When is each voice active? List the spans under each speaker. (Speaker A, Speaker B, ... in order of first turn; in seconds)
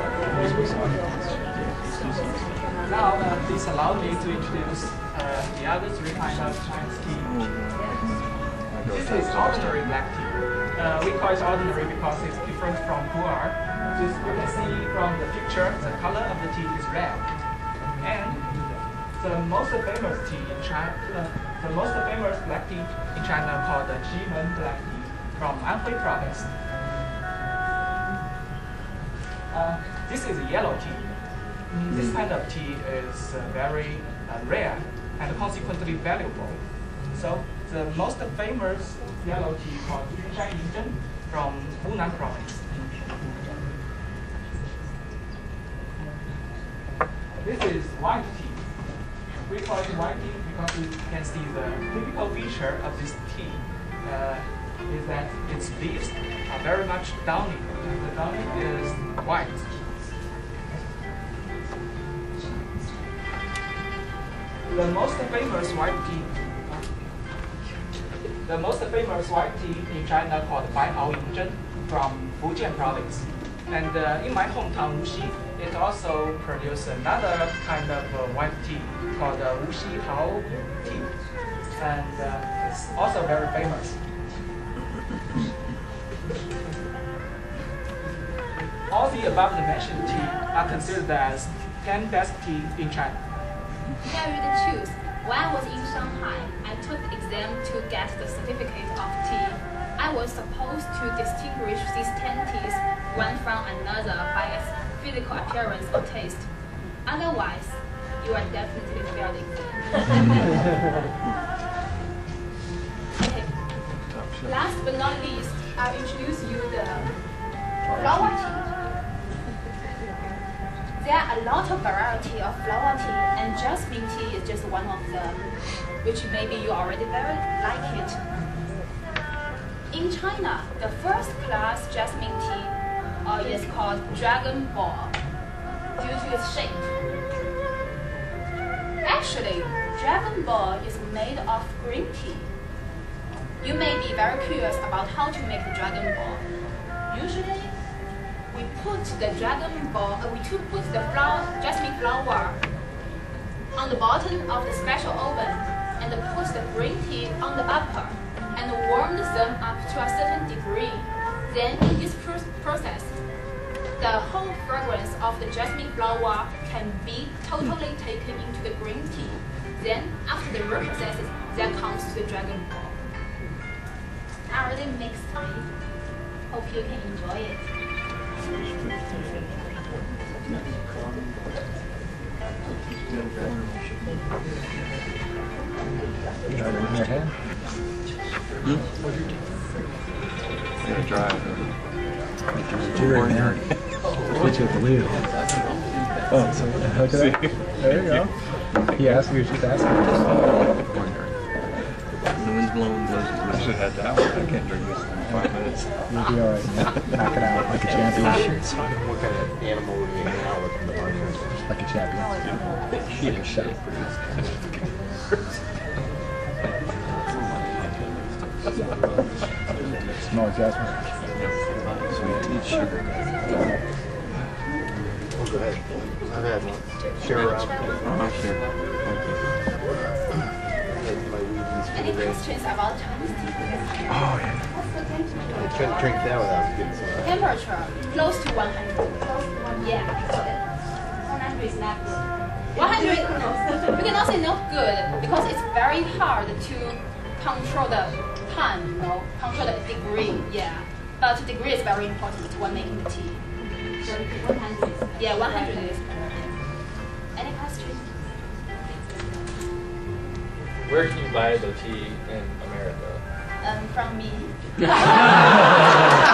Speaker A: 0.2-2.7, 7.2-9.8, 114.1-114.5, 178.6-179.4, 183.0-183.9, 190.8-191.7, 192.8-193.7, 200.4-201.3, 202.3-205.8, 222.1-223.1, 228.1-229.3
Speaker B: 2.8-7.4, 8.8-17.3, 18.0-18.5, 19.2-26.5, 29.5-31.1, 31.7-42.6, 47.4-48.6, 49.5-59.7, 64.7-66.3, 68.4-81.1, 81.8-84.0, 88.9-93.2
Speaker C: 94.1-106.5, 107.0-110.2, 113.2-113.5, 114.4-117.2, 117.9-118.7, 121.0-125.5, 126.0-128.2, 129.9-135.1, 135.9-136.9, 139.0-142.5, 143.6-146.4, 147.1-147.7, 148.5-152.6, 153.8-163.1, 164.0-172.9, 174.5-175.7, 176.5-177.6, 227.0-228.0, 231.9-236.2, 237.2-240.6, 241.2-253.4, 255.1-256.5, 257.3-258.1, 258.8-259.5, 263.6-265.7
Speaker D: 186.5-187.3, 192.5-193.7, 194.3-195.3, 196.3-198.3, 198.9-200.4, 205.2-208.7, 211.7-212.4, 213.1-213.8, 220.2-221.1, 234.1-234.6
Speaker E: 208.8-211.5, 225.3-227.9, 230.9-232.4, 235.5-237.3
Speaker F: 260.9-263.2